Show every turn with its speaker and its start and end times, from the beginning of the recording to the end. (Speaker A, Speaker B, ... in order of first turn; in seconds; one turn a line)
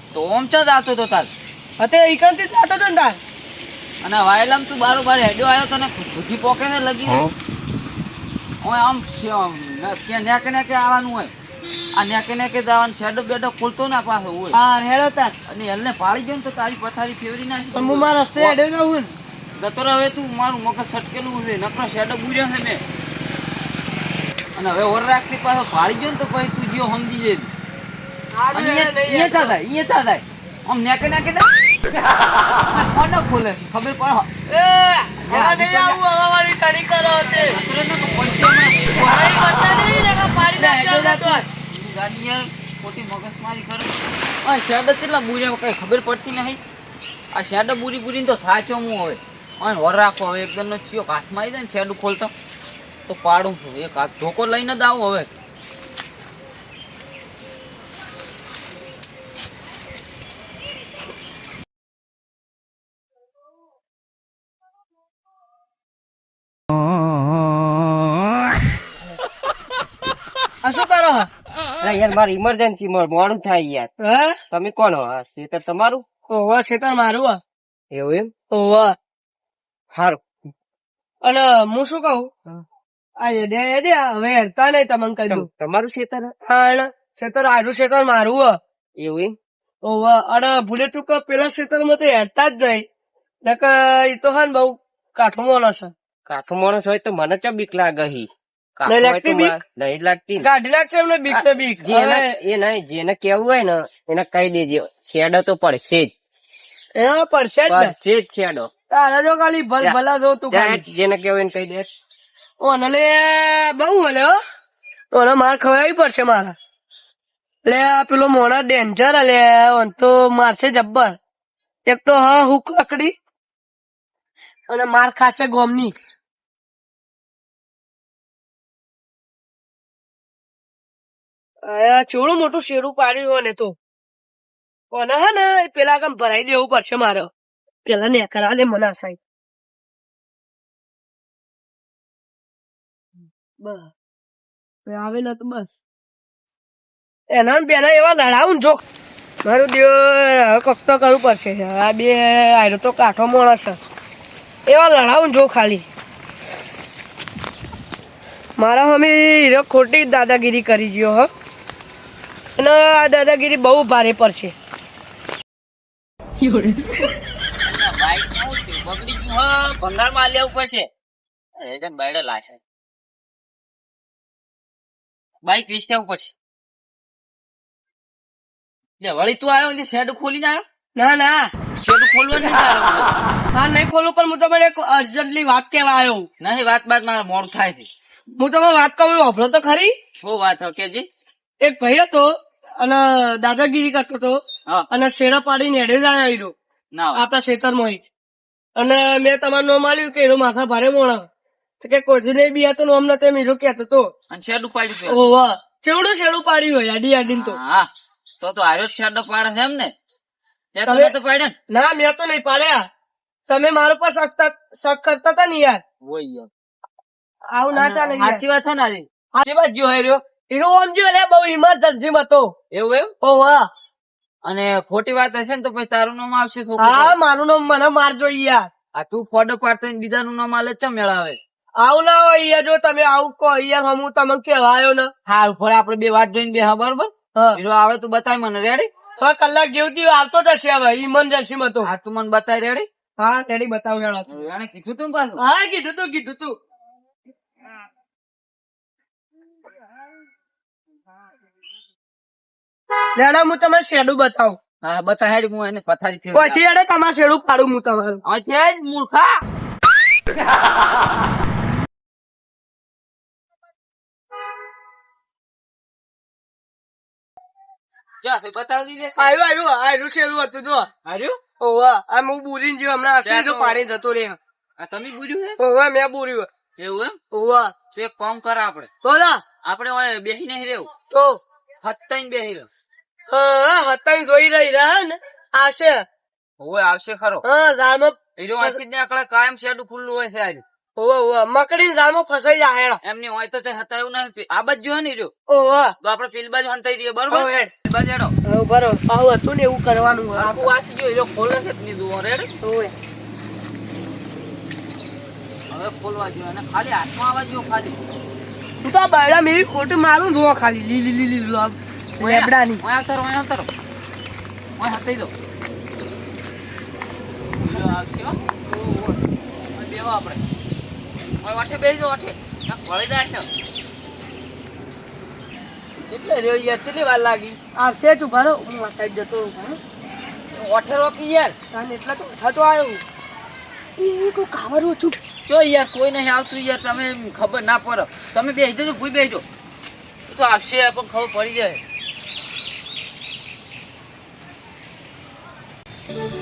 Speaker A: 0.1-1.3
Speaker B: 1.8-3.2
Speaker A: 4.0-7.3
Speaker A: 8.6-11.3
Speaker A: 11.9-14.6
Speaker B: 14.5-15.3
Speaker A: 15.5-18.6
Speaker B: 17.7-19.1
Speaker A: 19.6-22.8
Speaker A: 24.6-27.5
Speaker B: 28.3-29.5
Speaker A: 28.5-31.5
Speaker A: 32.7-34.3
Speaker B: 34.5-37.6
Speaker A: 35.2-36.0
Speaker A: 37.3-39.6
Speaker B: 39.0-41.4
Speaker A: 40.6-46.6
Speaker A: 47.3-52.3
Speaker A: 53.1-55.3
Speaker B: 70.6-71.3
Speaker C: 71.8-73.9
Speaker B: 74.0-74.4
Speaker C: 74.5-76.0
Speaker B: 76.3-77.4
Speaker C: 77.9-78.3
Speaker B: 78.5-78.9
Speaker C: 79.9-80.2
Speaker B: 81.2-82.3
Speaker B: 83.2-85.5
Speaker C: 85.3-86.3
Speaker B: 86.5-88.5
Speaker C: 89.0-89.3
Speaker B: 89.8-92.8
Speaker B: 93.5-95.9
Speaker C: 96.3-100.5
Speaker B: 98.8-99.6
Speaker B: 100.4-102.3
Speaker C: 101.8-106.1
Speaker B: 107.0-107.9
Speaker C: 107.7-108.7
Speaker B: 108.9-110.8
Speaker C: 110.5-111.9
Speaker B: 112.6-114.4
Speaker B: 115.1-116.5
Speaker B: 117.7-121.1
Speaker B: 121.9-123.1
Speaker B: 124.7-125.9
Speaker B: 131.7-133.8
Speaker B: 134.9-137.3
Speaker B: 137.8-139.2
Speaker B: 143.6-143.9
Speaker B: 144.8-145.7
Speaker B: 147.3-148.8
Speaker B: 149.4-153.8
Speaker B: 154.7-155.8
Speaker B: 158.6-161.3
Speaker B: 162.6-164.5
Speaker A: 166.4-167.1
Speaker A: 167.6-170.9
Speaker A: 171.6-172.6
Speaker A: 175.4-176.3
Speaker A: 179.0-180.6
Speaker B: 180.9-181.5
Speaker A: 181.8-183.1
Speaker B: 183.5-186.3
Speaker A: 186.4-187.9
Speaker B: 188.4-189.9
Speaker A: 190.2-191.1
Speaker B: 191.6-192.3
Speaker B: 192.8-194.4
Speaker B: 194.9-196.5
Speaker A: 196.9-197.2
Speaker B: 197.1-198.0
Speaker B: 198.8-201.2
Speaker B: 201.8-204.1
Speaker A: 204.3-205.2
Speaker B: 205.0-207.6
Speaker A: 207.3-207.9
Speaker A: 208.4-209.9
Speaker A: 210.7-211.5
Speaker B: 210.9-211.1
Speaker B: 211.7-212.8
Speaker B: 213.5-215.8
Speaker A: 216.0-216.5
Speaker B: 217.5-218.4
Speaker A: 217.7-220.2
Speaker B: 220.5-222.5
Speaker A: 222.7-223.1
Speaker B: 223.2-223.6
Speaker A: 224.4-227.2
Speaker B: 226.8-228.7
Speaker A: 228.9-231.4
Speaker B: 231.8-235.1
Speaker A: 235.2-238.9
Speaker B: 239.2-241.9
Speaker A: 241.8-242.9
Speaker B: 243.2-244.3
Speaker A: 244.3-245.4
Speaker B: 245.4-246.6
Speaker B: 253.1-254.6
Speaker A: 254.8-256.6
Speaker B: 256.3-258.2
Speaker A: 258.2-259.4
Speaker A: 268.2-269.3
Speaker B: 269.2-270.9
Speaker A: 271.0-271.4
Speaker B: 271.6-274.4
Speaker A: 273.2-273.8
Speaker A: 274.8-275.6
Speaker B: 275.6-276.5
Speaker A: 276.8-277.1
Speaker B: 277.3-277.7
Speaker A: 277.9-278.9
Speaker B: 279.0-279.4
Speaker A: 279.6-280.9
Speaker B: 281.1-281.4
Speaker A: 281.8-282.7
Speaker B: 283.3-286.0
Speaker A: 286.6-287.4
Speaker B: 287.4-288.8
Speaker A: 288.4-290.6
Speaker B: 291.0-293.0
Speaker A: 293.0-295.3
Speaker B: 295.5-295.9
Speaker A: 296.0-298.3
Speaker B: 297.3-297.7
Speaker B: 298.4-300.7
Speaker A: 300.3-302.5
Speaker B: 302.6-302.9
Speaker A: 305.7-308.0
Speaker B: 308.8-312.8
Speaker A: 312.2-313.7
Speaker A: 314.8-315.3
Speaker A: 317.6-319.2
Speaker A: 319.7-320.4
Speaker A: 321.4-323.5
Speaker A: 326.1-327.6
Speaker B: 327.8-329.8
Speaker A: 330.5-331.5
Speaker B: 331.7-333.0
Speaker B: 334.0-335.1
Speaker A: 335.4-339.4
Speaker A: 340.3-341.8